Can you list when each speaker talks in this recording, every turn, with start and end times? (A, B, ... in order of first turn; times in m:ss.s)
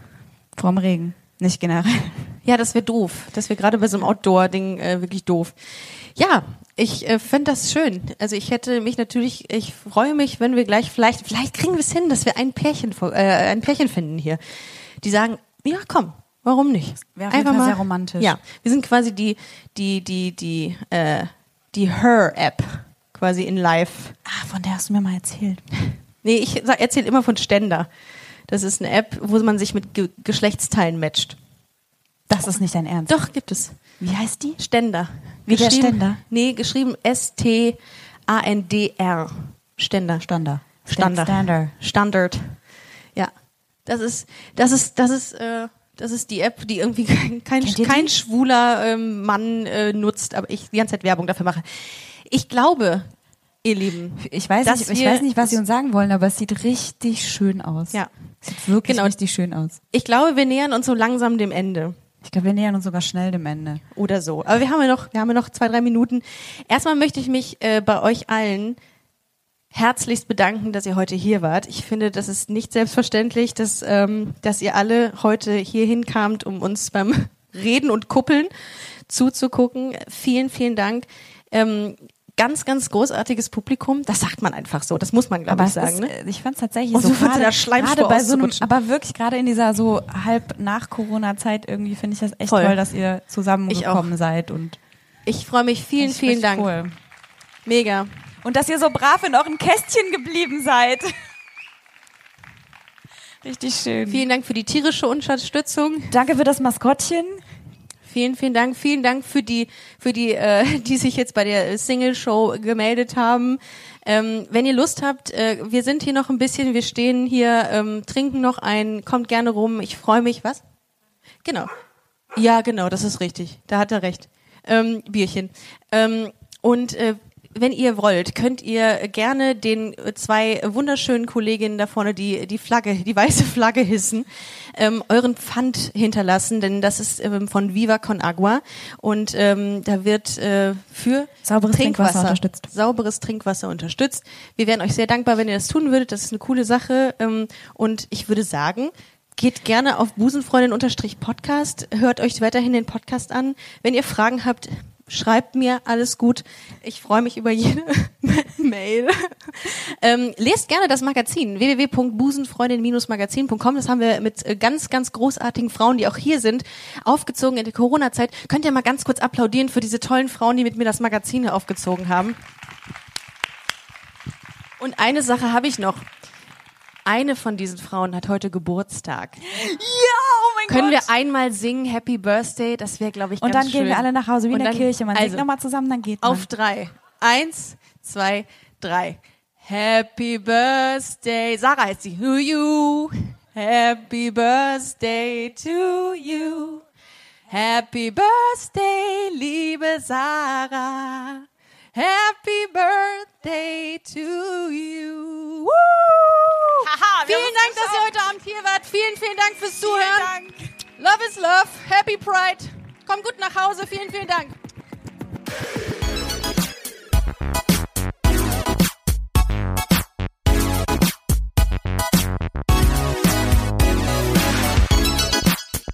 0:00.6-0:02.3 A
0:02.4-0:14.4 B
0:15.0-0:24.2 B
0:17.1-0:18.4 A
0:24.2-0:25.6 A
0:26.2-0:27.9 B
0:28.5-0:31.4 B
0:32.3-0:33.1 A
0:33.1-0:33.8 B
0:34.0-0:34.6 A
0:34.6-0:40.2 B
0:35.4-0:36.2 A
0:40.2-0:41.7 A
0:40.9-0:42.6 B
0:43.8-0:53.1 B
0:47.6-0:48.1 A
0:53.6-0:55.6 B
0:54.2-0:59.8 A
0:58.8-0:59.1 B
0:59.9-1:02.0 B
1:02.2-1:03.8 A
1:03.9-1:08.8 B
1:09.7-1:18.5 B
1:19.1-1:26.1 B
1:25.5-1:34.8 A
1:26.9-1:28.7 B
1:32.5-1:32.8 B
1:33.7-1:34.1 B
1:35.2-1:36.7 B
1:36.0-1:36.9 A
1:37.6-1:38.1 B
1:38.4-1:41.1 A
1:43.4-1:44.3 A
1:44.1-1:46.2 B
1:46.1-1:47.4 A
1:48.0-2:00.6 B
2:01.4-2:01.7 B
2:02.3-2:52.4 B
2:21.4-2:22.7 A
2:54.8-2:56.1 B
2:57.0-2:59.4 B
2:59.4-3:01.1 A
3:00.7-3:05.4 B
3:03.4-3:06.5 A
3:06.2-3:16.8 B
3:17.5-3:30.3 B
3:26.8-3:28.1 A
3:29.8-3:30.7 A
3:31.0-3:34.6 B